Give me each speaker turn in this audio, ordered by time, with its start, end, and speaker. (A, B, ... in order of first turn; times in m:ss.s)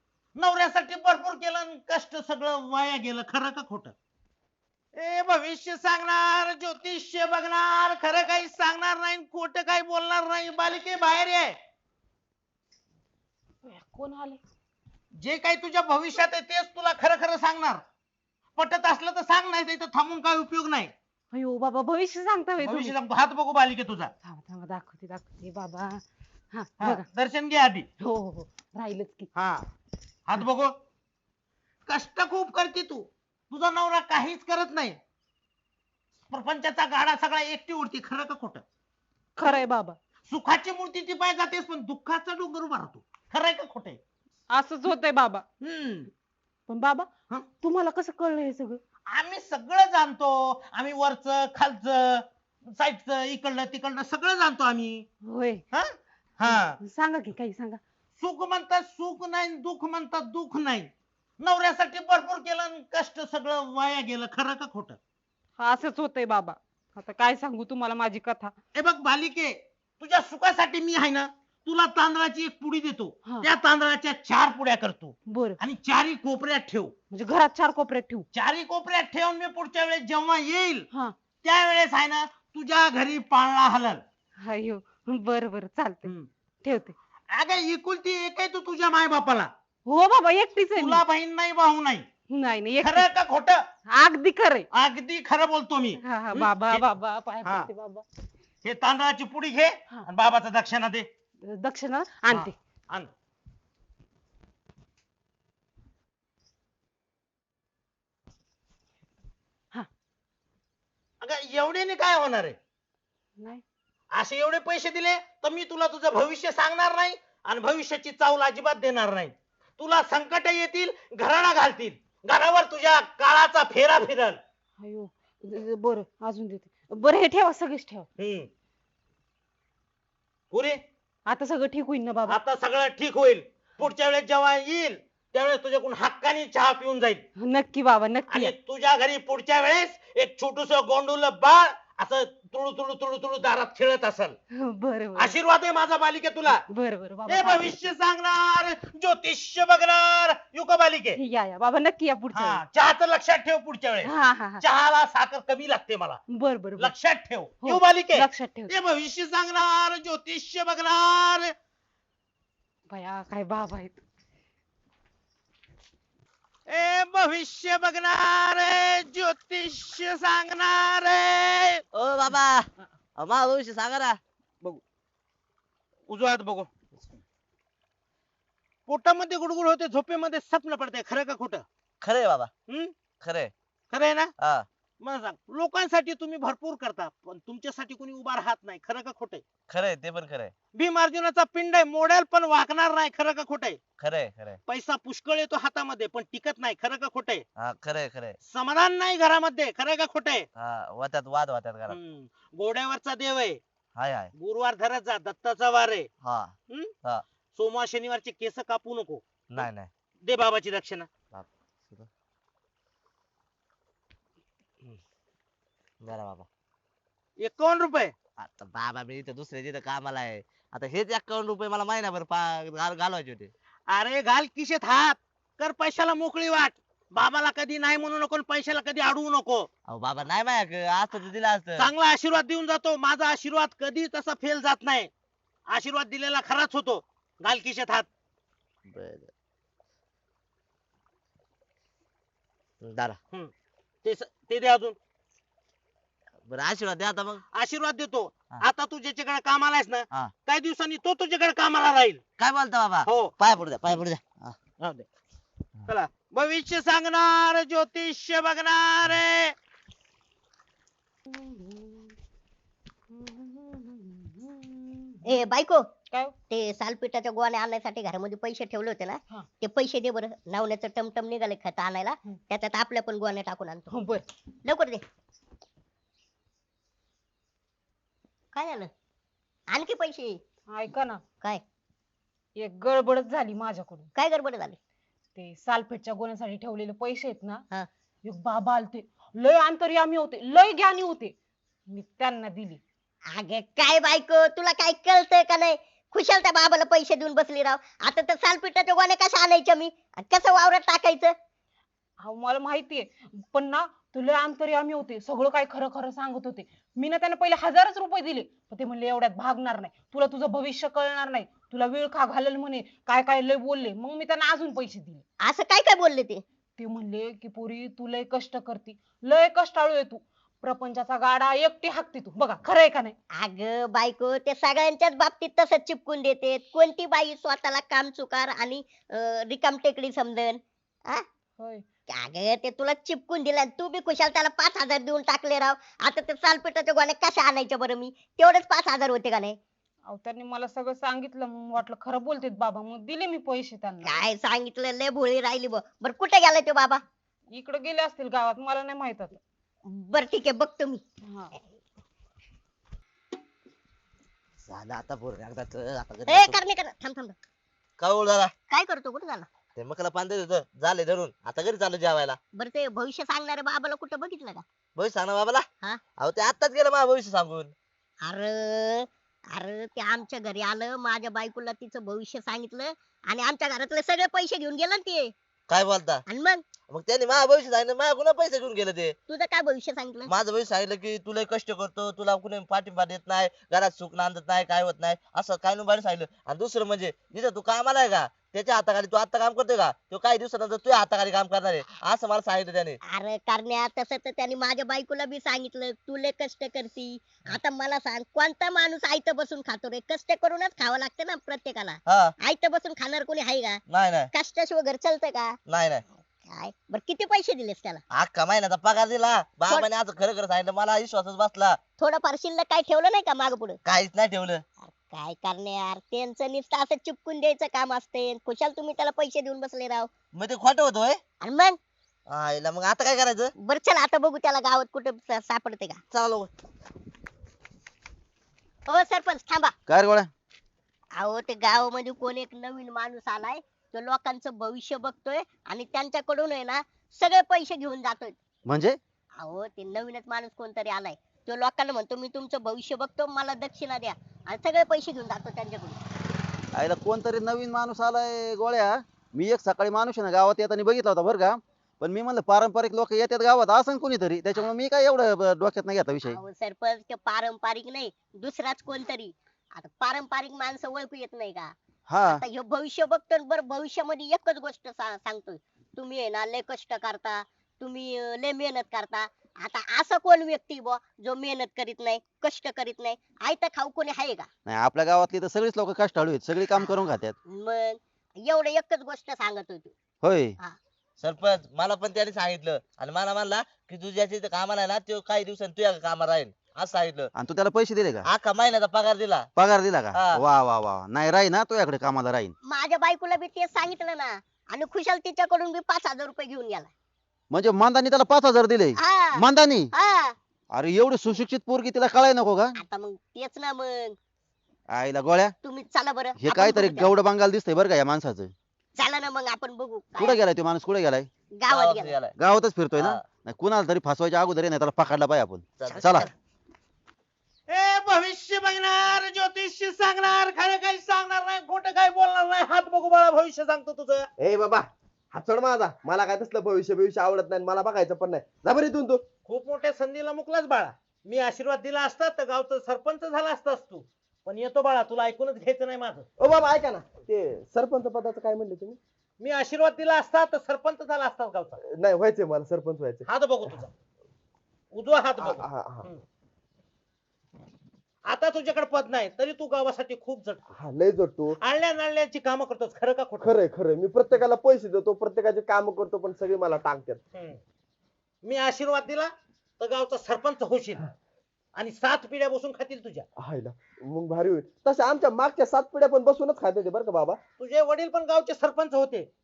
0:00.4-0:03.9 A
0:05.0-0:11.6 A
0:13.6-0:14.4 B
0:15.2-0:17.8 A
0:18.6-0:20.9 A
0:21.3-0:22.9 B
0:22.6-0:24.1 A
0:24.2-0:27.0 B
0:26.8-0:27.9 A
0:28.0-0:29.3 B
0:29.3-0:29.6 A
0:30.2-0:30.7 A
0:31.9-0:35.0 A
0:36.3-0:38.6 A
0:39.4-0:40.0 B
0:40.3-0:44.0 A
0:44.5-0:45.4 B
0:45.6-0:46.1 A
0:46.7-0:47.1 B
0:47.6-0:48.8 B
0:49.1-0:55.1 A
0:55.2-0:55.6 B
0:55.7-0:56.8 A
0:56.4-0:57.8 B
0:58.2-1:00.9 A
1:01.4-1:05.0 A
1:05.6-1:08.5 B
1:08.7-1:16.9 A
1:13.2-1:13.5 B
1:15.3-1:15.6 B
1:17.1-1:18.2 B
1:18.3-1:20.9 A
1:21.4-1:24.0 A
1:24.4-1:26.1 B
1:26.6-1:26.9 B
1:27.3-1:29.5 A
1:29.8-1:31.0 B
1:30.7-1:32.0 A
1:32.3-1:33.1 B
1:32.8-1:33.6 A
1:33.9-1:34.7 B
1:34.7-1:36.8 A
1:36.0-1:38.0 B
1:37.4-1:37.7 A
1:38.6-1:41.0 A
1:41.5-1:42.5 B
1:42.3-1:43.1 A
1:51.2-1:52.6 A
1:53.4-1:53.6 B
1:54.1-2:04.4 A
2:04.8-2:08.1 B
2:08.2-2:08.5 A
2:10.5-2:10.8 A
2:11.3-2:12.4 B
2:12.3-2:17.2 A
2:17.4-2:18.5 B
2:18.3-2:24.4 A
2:24.6-2:25.4 B
2:25.2-2:26.6 A
2:26.6-2:27.7 B
2:27.3-2:31.2 A
2:31.1-2:32.6 B
2:32.3-2:36.2 A
2:34.0-2:34.6 B
2:36.3-2:37.0 B
2:36.8-2:41.5 A
2:37.6-2:38.7 B
2:42.9-2:44.0 B
2:46.7-2:51.8 A
2:51.9-2:54.2 C
2:56.1-2:56.7 A
2:58.9-3:01.6 A
3:02.0-3:02.5 C
3:02.7-3:02.9 A
3:03.2-3:03.5 C
3:03.9-3:04.3 A
3:04.4-3:04.7 C
3:05.0-3:09.4 A
3:09.7-3:10.5 C
3:10.7-3:13.8 A
3:14.0-3:14.6 C
3:14.7-3:17.4 A
3:17.6-3:18.4 C
3:18.4-3:20.5 A
3:20.6-3:22.0 C
3:21.9-3:23.6 A
3:23.9-3:24.3 C
3:24.3-3:26.1 A
3:26.2-3:27.2 C
3:27.5-3:29.7 A
3:29.5-3:29.9 C
3:30.2-3:31.1 A
3:31.3-3:32.1 C
3:36.0-3:36.5 C
3:37.4-3:38.1 A
3:38.4-3:43.5 C
3:43.9-3:49.7 A
3:49.9-3:51.9 C
3:51.8-3:55.1 A
3:55.7-3:58.0 A
3:58.9-3:59.3 C
4:02.8-4:03.2 C
4:04.0-4:05.0 A
4:06.4-4:07.4 C
4:07.5-4:12.2 A
4:12.4-4:14.6 C
4:13.0-4:13.3 A
4:14.8-4:15.0 A
4:15.9-4:19.5 A
4:21.3-4:22.1 B
4:23.1-4:25.4 B
4:25.2-4:25.8 D
4:26.1-4:26.4 B
4:26.5-4:34.0 D
4:33.9-4:34.2 B
4:34.6-4:35.0 D
4:38.5-4:38.9 D
4:39.7-4:40.4 D
4:40.7-4:41.2 B
4:42.6-4:44.1 B
4:44.1-4:44.8 D
4:45.4-4:47.6 B
4:48.2-4:51.4 B
4:51.9-4:52.8 B
4:53.3-5:01.3 D
5:02.2-5:15.2 B
5:15.4-5:16.4 D
5:16.8-5:23.2 B
5:23.4-5:31.2 D
5:31.6-5:31.8 B
5:32.1-5:39.6 D
5:40.1-5:44.2 B
5:44.0-5:47.0 D
5:47.5-5:49.4 B
5:49.9-5:51.0 D
5:51.3-5:51.5 B
5:54.6-5:56.6 C
5:56.3-5:57.3 D
5:58.0-5:58.5 C
5:58.7-5:59.5 D
5:59.8-6:02.4 C
6:02.5-6:04.6 D
6:05.0-6:05.7 C
6:06.2-6:07.7 C
6:08.2-6:15.3 D
6:15.7-6:16.2 C
6:16.3-6:16.6 D
6:16.9-6:19.2 C
6:19.3-6:20.3 D
6:20.2-6:33.0 C
6:33.1-6:45.6 D
6:42.0-6:42.3 C
6:43.9-6:44.3 C
6:45.7-6:46.0 C
6:46.4-6:48.0 D
6:48.1-6:51.8 C
6:52.0-6:53.8 D
6:53.8-6:54.6 C
6:54.8-7:00.1 D
7:00.3-7:01.2 C
7:01.4-7:01.8 D
7:02.3-7:03.5 C
7:03.6-7:06.0 D
7:06.1-7:06.5 C
7:08.9-7:09.7 D
7:09.9-7:10.3 E
7:11.2-7:18.4 D
7:18.6-7:19.0 E
7:19.4-7:26.0 D
7:26.7-7:36.4 E
7:36.2-7:41.7 D
7:42.1-7:42.4 E
7:42.3-7:54.5 D
7:54.6-7:57.4 E
7:56.8-7:59.9 D
8:00.2-8:00.6 E
8:01.2-8:07.3 C
8:07.3-8:08.3 E
8:08.2-8:09.5 C
8:09.6-8:12.5 E
8:10.1-8:10.4 C
8:12.6-8:16.9 D
8:17.5-8:19.9 E
8:19.0-8:20.4 D
8:20.7-8:22.7 E
8:22.8-8:24.2 D
8:24.9-8:25.5 E
8:25.6-8:27.1 D
8:26.4-8:28.5 E
8:29.0-8:30.4 D
8:30.2-8:31.3 E
8:31.6-8:32.2 D
8:31.7-8:32.3 C
8:32.4-8:36.3 E
8:33.0-8:33.2 C
8:35.8-8:36.3 C
8:35.9-8:36.3 D
8:37.7-8:44.3 A
8:44.4-8:49.2 F
8:49.4-8:56.3 A
8:56.4-8:59.0 F
8:59.4-9:01.8 A
9:01.9-9:03.8 F
9:03.2-9:03.9 A
9:04.9-9:06.2 A
9:05.4-9:06.1 F
9:08.2-9:10.6 A
9:10.8-9:11.6 F
9:11.6-9:13.5 A
9:13.4-9:17.2 F
9:17.3-9:17.6 A
9:18.4-9:21.0 A
9:21.8-9:23.2 A
9:23.4-9:27.4 F
9:27.6-9:29.3 A